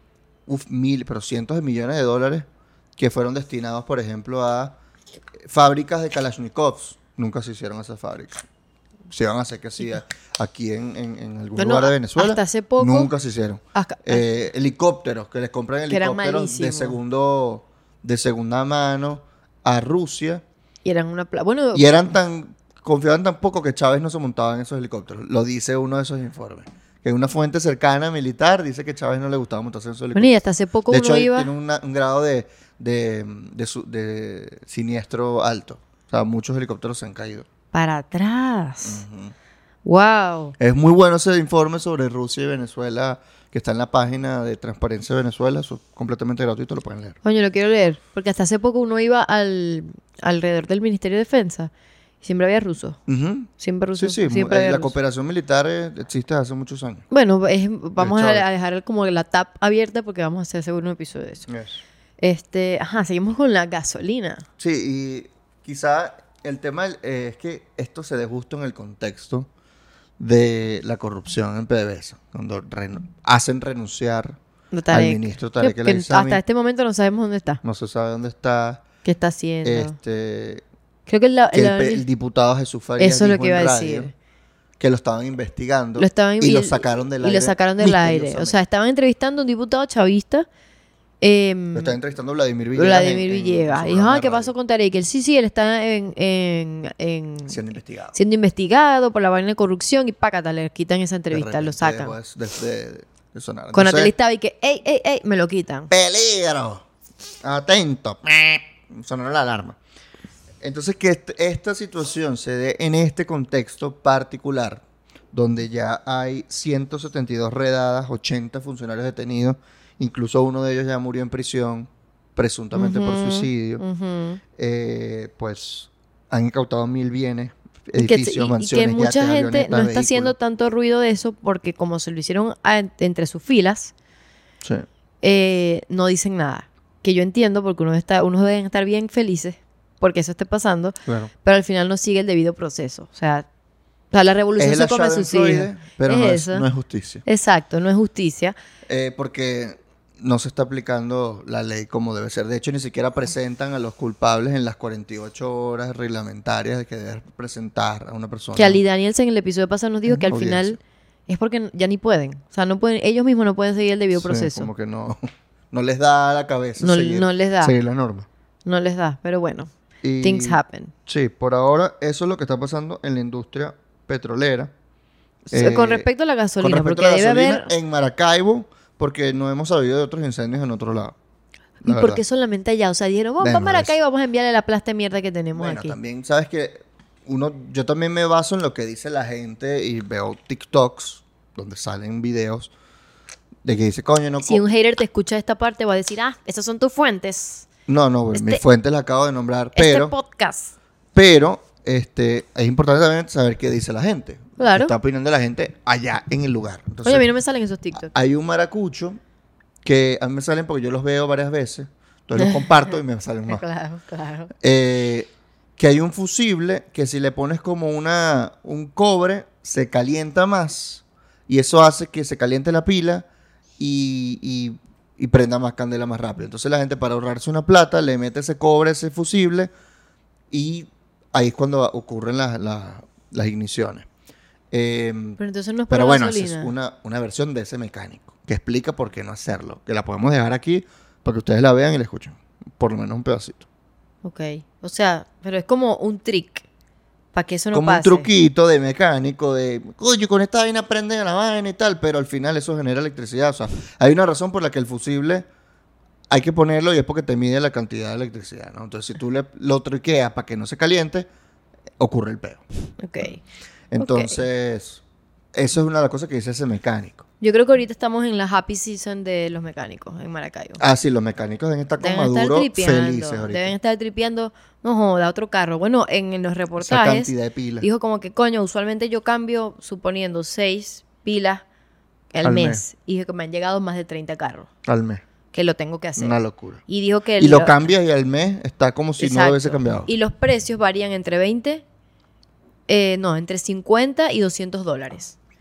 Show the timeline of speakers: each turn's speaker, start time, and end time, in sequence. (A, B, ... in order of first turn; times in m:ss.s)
0:00.5-0:02.4 A
0:03.0-0:04.8 A
0:05.4-0:08.4 A
0:09.1-0:20.4 A
0:11.6-0:13.1 B
0:13.7-0:14.2 B
0:15.9-0:17.0 B
0:20.8-0:22.1 B
0:21.7-0:37.4 A
0:30.1-0:31.5 B
0:37.7-0:39.0 B
0:38.8-0:39.3 A
0:39.8-0:40.6 B
0:40.6-0:47.2 A
0:47.2-0:51.7 B
0:52.2-0:53.0 B
0:53.1-0:57.0 A
0:53.6-0:54.9 B
0:57.1-1:01.5 B
0:58.0-0:58.4 A
1:01.5-1:01.8 A
1:02.2-1:04.4 B
1:04.6-1:09.5 A
1:10.2-1:14.4 A
1:14.7-1:17.6 B
1:14.9-1:16.4 A
1:17.6-1:18.8 A
1:19.0-1:19.9 B
1:19.6-1:20.6 A
1:21.1-1:22.0 B
1:21.5-1:24.1 A
1:23.0-1:24.1 B
1:24.8-1:28.6 A
1:26.0-1:30.5 B
1:31.2-1:32.0 B
1:31.7-1:34.5 A
1:32.7-1:42.2 B
1:37.5-1:38.2 A
1:41.3-1:44.1 A
1:43.7-1:45.9 B
1:45.9-1:46.8 A
1:47.4-1:49.8 A
1:50.6-2:03.8 A
2:02.7-2:04.4 B
2:04.6-2:10.3 A
2:07.9-2:13.9 B
2:15.2-2:23.4 B
2:24.1-2:26.7 B
2:24.6-2:27.2 A
2:27.2-2:28.6 B
2:28.9-2:38.8 A
2:38.6-2:44.7 B
2:40.0-2:40.8 A
2:44.1-2:48.3 A
2:46.8-2:47.7 B
2:48.6-2:49.7 B
2:50.0-2:54.7 A
2:50.2-2:50.9 B
2:55.5-2:57.7 B
2:55.5-2:56.1 A
2:56.6-3:01.2 A
3:01.8-3:02.2 A
3:01.8-3:06.0 B
3:03.4-3:03.9 A
3:05.5-3:12.7 A
3:13.6-3:14.6 A
3:14.4-3:17.7 B
3:17.9-3:20.1 A
3:18.3-3:18.6 B
3:19.7-3:20.7 B
3:21.1-3:27.3 A
3:24.6-3:24.9 B
3:27.0-3:28.1 B
3:27.9-3:29.2 A
3:29.8-3:33.6 A
3:32.4-3:32.9 B
3:33.5-3:34.5 B
3:34.6-3:43.2 A
3:43.8-3:49.7 A
3:50.5-3:54.1 A
3:54.7-3:55.4 A
3:55.4-3:56.7 B
3:55.9-4:03.6 A
4:04.2-4:06.6 B
4:07.3-4:08.3 B
4:07.7-4:15.4 A
4:16.3-4:21.3 A
4:22.0-4:22.6 A
4:23.0-4:23.4 B
4:23.9-4:25.0 A
4:24.0-4:24.4 B
4:25.5-4:27.2 A
4:27.4-4:30.8 B
4:30.8-4:33.7 A
4:32.0-4:41.6 B
4:36.8-4:37.9 A
4:42.3-4:44.7 B
4:42.4-4:42.8 A
4:44.8-4:45.2 A
4:45.5-4:46.4 B
4:46.2-4:46.8 A
4:46.9-4:47.9 B
4:47.4-4:50.1 A
4:49.2-4:51.8 B
4:52.9-4:55.4 B